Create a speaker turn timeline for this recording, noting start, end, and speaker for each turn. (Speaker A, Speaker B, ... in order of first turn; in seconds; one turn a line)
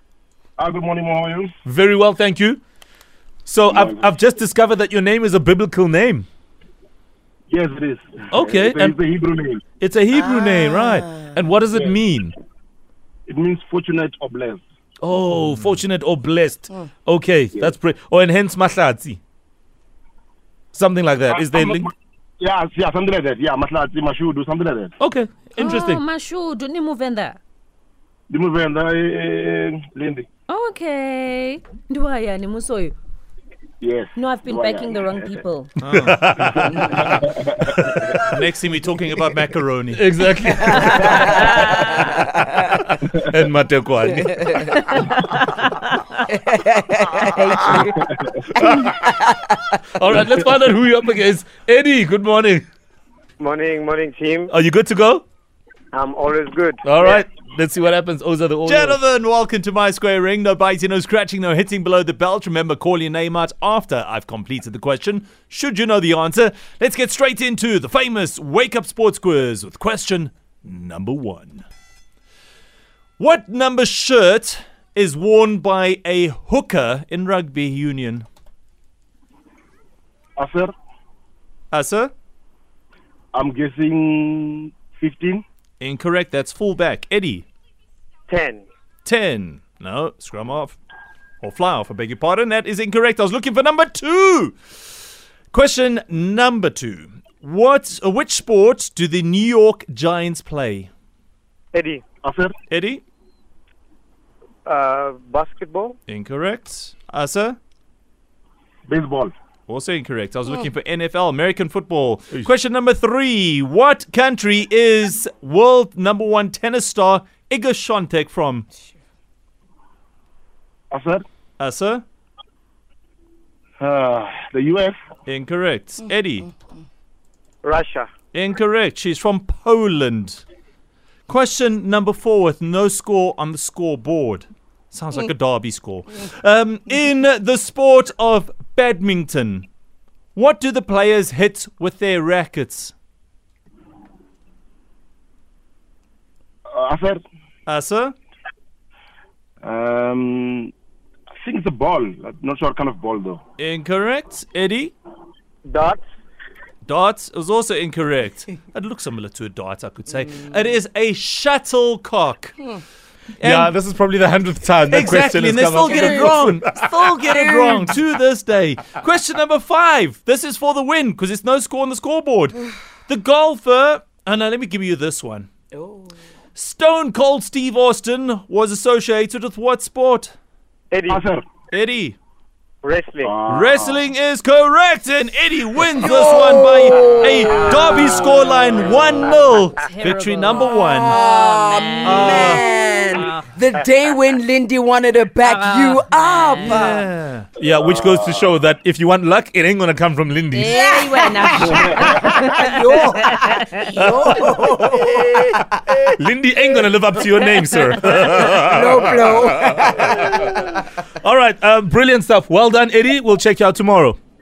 Speaker A: 0.6-1.5
Speaker B: 1.6-2.6
Speaker B: 3.5-6.3
Speaker A: 3.7-4.1
Speaker A: 7.5-9.6
Speaker B: 8.3-8.9
Speaker B: 9.8-12.3
Speaker A: 13.3-14.6
Speaker B: 15.0-19.2
Speaker B: 20.7-21.9
Speaker A: 21.3-24.9
Speaker B: 25.0-26.0
Speaker C: 25.6-27.4
Speaker A: 28.3-30.3
Speaker C: 30.5-32.9
Speaker A: 33.8-35.4
Speaker C: 34.1-35.7
Speaker D: 35.8-36.9
Speaker B: 35.9-37.0
Speaker A: 36.8-38.1
Speaker B: 37.8-38.1
Speaker D: 38.2-40.0
Speaker B: 39.9-45.0
Speaker E: 40.6-42.5
Speaker C: 40.8-42.2
Speaker E: 44.3-44.6
Speaker C: 44.8-45.9
Speaker E: 46.3-48.0
Speaker C: 47.4-47.8
Speaker E: 48.6-49.3
Speaker B: 48.6-48.9
Speaker B: 49.9-52.6
Speaker F: 53.4-54.5
Speaker B: 54.5-55.2
Speaker F: 55.9-57.2
Speaker B: 56.8-59.0
Speaker D: 58.6-71.6
Speaker D: 73.2-78.2
Speaker A: 80.4-80.7
Speaker D: 81.7-82.1
Speaker A: 83.3-85.4
Speaker D: 85.8-87.5
Speaker F: 88.3-88.7
Speaker D: 89.0-90.8
Speaker D: 91.4-94.5
Speaker D: 95.5-100.9
Speaker F: 101.7-102.0
Speaker A: 102.2-102.5
Speaker D: 102.7-103.0
Speaker F: 104.7-106.0
Speaker D: 106.1-107.6
Speaker A: 108.9-109.3
Speaker D: 109.7-118.7
Speaker A: 120.9-121.2
Speaker D: 121.6-122.0
Speaker A: 123.8-125.0
Speaker D: 125.3-126.5
Speaker F: 127.6-128.1
Speaker D: 128.3-130.4
Speaker D: 131.3-139.7
Speaker D: 140.3-142.9
Speaker A: 146.7-147.2
Speaker D: 147.7-148.1
Speaker A: 149.6-150.7
Speaker A: 151.4-153.4
Speaker D: 153.6-154.9
Speaker F: 155.7-156.0
Speaker D: 156.8-162.7
Speaker D: 163.4-163.7
Speaker B: 163.4-167.1
Speaker D: 164.9-175.5
Speaker E: 167.2-168.0
Speaker D: 176.6-180.3
Speaker F: 180.9-181.2
Speaker A: 181.1-181.4
Speaker D: 181.7-182.2
Speaker F: 182.8-183.3
Speaker A: 183.2-184.0
Speaker D: 183.5-191.2
Speaker E: 185.9-188.1
Speaker A: 187.8-188.6
Speaker C: 189.4-193.5
Speaker E: 190.7-197.1
Speaker D: 192.0-192.7
Speaker F: 193.1-193.8
Speaker C: 195.4-196.9
Speaker D: 196.6-197.5
Speaker B: 197.6-200.8
Speaker A: 197.6-198.5
Speaker C: 200.5-203.8
Speaker E: 200.7-206.0
Speaker A: 201.5-202.4
Speaker B: 203.9-205.4
Speaker B: 206.1-214.2
Speaker E: 208.4-210.7